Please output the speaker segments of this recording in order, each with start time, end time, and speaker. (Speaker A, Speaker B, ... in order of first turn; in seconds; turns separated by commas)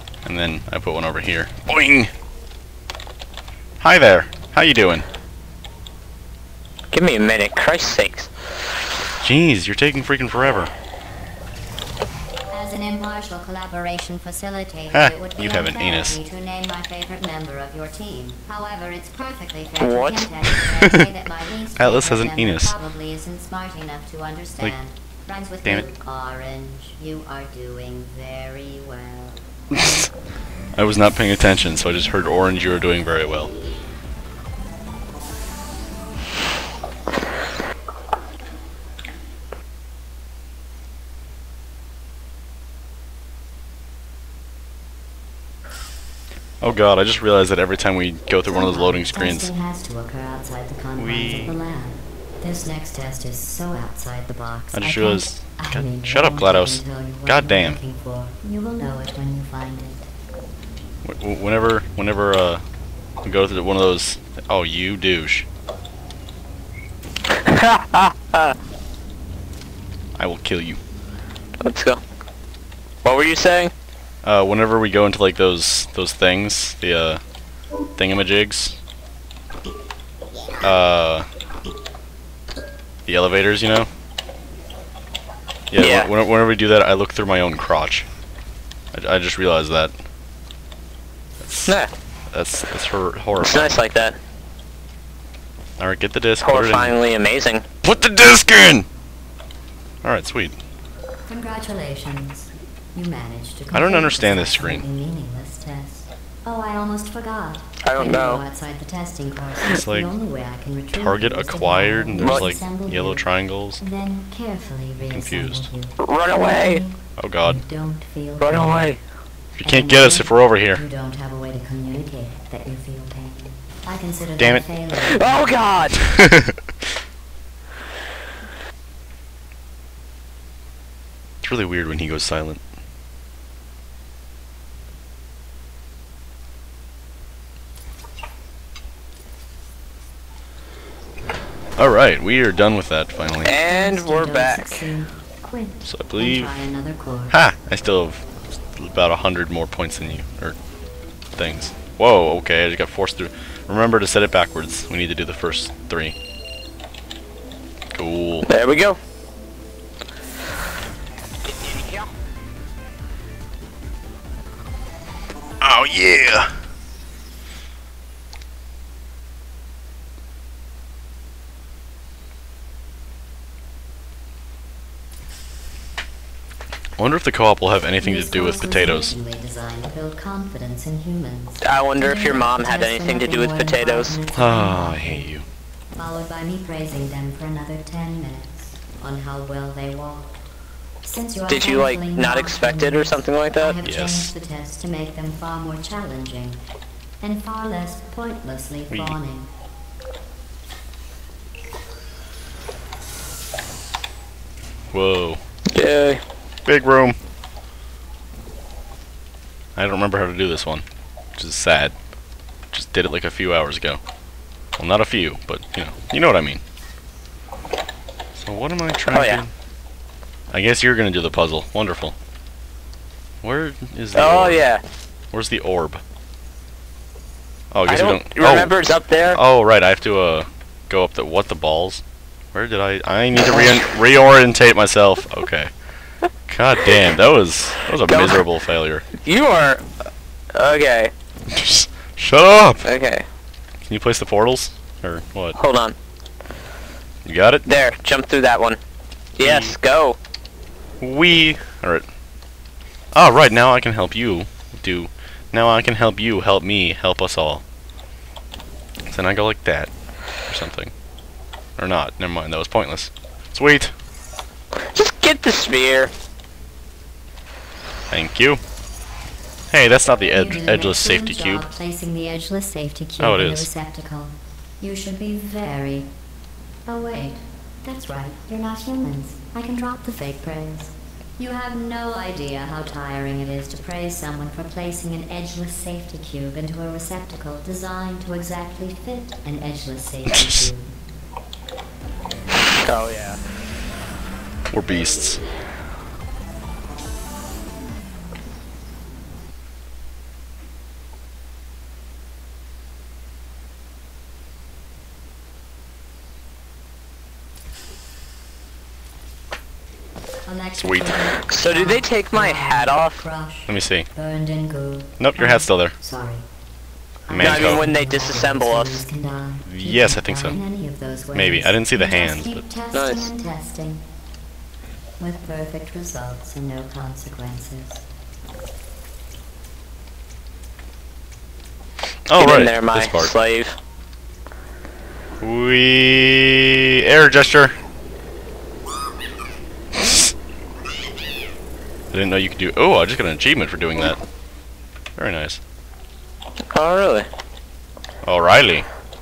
Speaker A: 0.2-2.1, Speaker A: 3.8-5.0, Speaker B: 6.9-8.3, Speaker A: 9.2-10.7, Speaker C: 12.5-29.4, Speaker A: 14.9-16.2, Speaker B: 19.8-20.3, Speaker A: 20.5-21.1, Speaker A: 21.8-22.7, Speaker A: 29.7-30.1, Speaker A: 30.8-33.5, Speaker A: 46.6-49.5, Speaker C: 48.4-60.1, Speaker A: 51.0-51.6, Speaker A: 54.7-57.8, Speaker A: 61.0-62.6, Speaker A: 63.2-65.5, Speaker B: 67.3-68.5, Speaker A: 70.2-70.8, Speaker B: 71.6-72.0, Speaker B: 73.0-73.7, Speaker A: 74.2-77.2, Speaker A: 78.0-78.8, Speaker A: 80.6-81.3, Speaker A: 83.0-83.9, Speaker A: 85.7-88.0, Speaker B: 85.8-86.1, Speaker A: 88.9-89.9, Speaker A: 91.4-91.8, Speaker A: 92.3-93.8, Speaker B: 93.3-94.2, Speaker A: 95.8-97.0, Speaker B: 96.4-97.6, Speaker A: 97.8-98.8, Speaker A: 100.0-100.5, Speaker C: 101.2-118.9, Speaker A: 103.7-104.8, Speaker B: 107.8-108.4, Speaker A: 109.6-110.1, Speaker A: 110.9-113.8, Speaker B: 112.2-112.5, Speaker A: 115.1-115.7, Speaker B: 116.0-116.8, Speaker A: 117.2-117.6, Speaker B: 118.4-119.0, Speaker C: 119.5-125.5, Speaker A: 119.6-120.8, Speaker A: 124.4-124.7, Speaker B: 125.0-126.0, Speaker A: 126.1-126.6, Speaker A: 131.4-132.6, Speaker A: 141.8-143.6, Speaker B: 143.4-144.8, Speaker C: 143.5-147.3, Speaker A: 145.8-146.5, Speaker A: 147.3-148.2, Speaker A: 148.7-150.6, Speaker A: 151.3-156.2, Speaker A: 157.9-158.5, Speaker B: 158.4-159.0, Speaker B: 161.5-162.1, Speaker A: 165.6-166.5, Speaker A: 177.0-179.1, Speaker C: 178.0-185.3, Speaker B: 181.6-184.2, Speaker A: 184.3-185.4, Speaker C: 185.9-190.4, Speaker C: 191.0-196.6, Speaker B: 191.5-193.8, Speaker A: 193.8-194.3, Speaker C: 197.2-199.5, Speaker A: 198.9-199.2, Speaker A: 204.9-205.4, Speaker B: 205.7-206.2, Speaker A: 206.7-207.2, Speaker A: 209.8-210.8, Speaker A: 211.3-211.9, Speaker A: 212.7-214.0, Speaker A: 214.8-216.6, Speaker A: 218.3-219.5, Speaker B: 219.1-219.4, Speaker A: 220.5-222.1, Speaker A: 223.4-224.7, Speaker B: 224.1-224.8, Speaker A: 225.3-226.0, Speaker A: 227.7-228.7, Speaker B: 227.8-229.4, Speaker A: 229.3-232.0, Speaker A: 232.5-235.7, Speaker A: 236.5-239.0, Speaker B: 238.0-238.4, Speaker B: 239.1-239.8, Speaker B: 240.5-241.1, Speaker A: 241.5-242.9, Speaker B: 242.8-243.2, Speaker A: 243.8-245.6, Speaker B: 245.6-245.9, Speaker A: 247.2-247.6, Speaker B: 247.6-248.8, Speaker B: 249.4-250.2, Speaker A: 249.4-249.8, Speaker A: 251.0-252.1, Speaker A: 253.1-257.6, Speaker A: 259.1-259.9, Speaker A: 260.5-260.9, Speaker A: 261.8-263.9, Speaker B: 264.9-266.1, Speaker A: 268.1-268.6, Speaker A: 269.7-271.6, Speaker C: 270.3-276.1, Speaker A: 273.2-273.7, Speaker C: 276.9-290.9, Speaker A: 290.3-290.6, Speaker B: 292.8-293.4, Speaker A: 294.7-295.4, Speaker C: 310.4-316.4, Speaker A: 310.8-311.3, Speaker B: 311.5-313.2, Speaker A: 313.7-314.1, Speaker A: 315.2-315.9, Speaker C: 317.3-324.0, Speaker A: 317.3-317.9, Speaker B: 317.3-319.0, Speaker A: 319.6-320.6, Speaker A: 321.3-322.6, Speaker B: 322.9-323.3, Speaker C: 325.2-328.0, Speaker A: 332.3-333.3, Speaker B: 332.4-333.8, Speaker A: 335.4-337.7, Speaker A: 339.9-340.3, Speaker A: 342.1-344.2, Speaker A: 345.1-345.6, Speaker B: 346.7-347.2, Speaker A: 348.2-348.9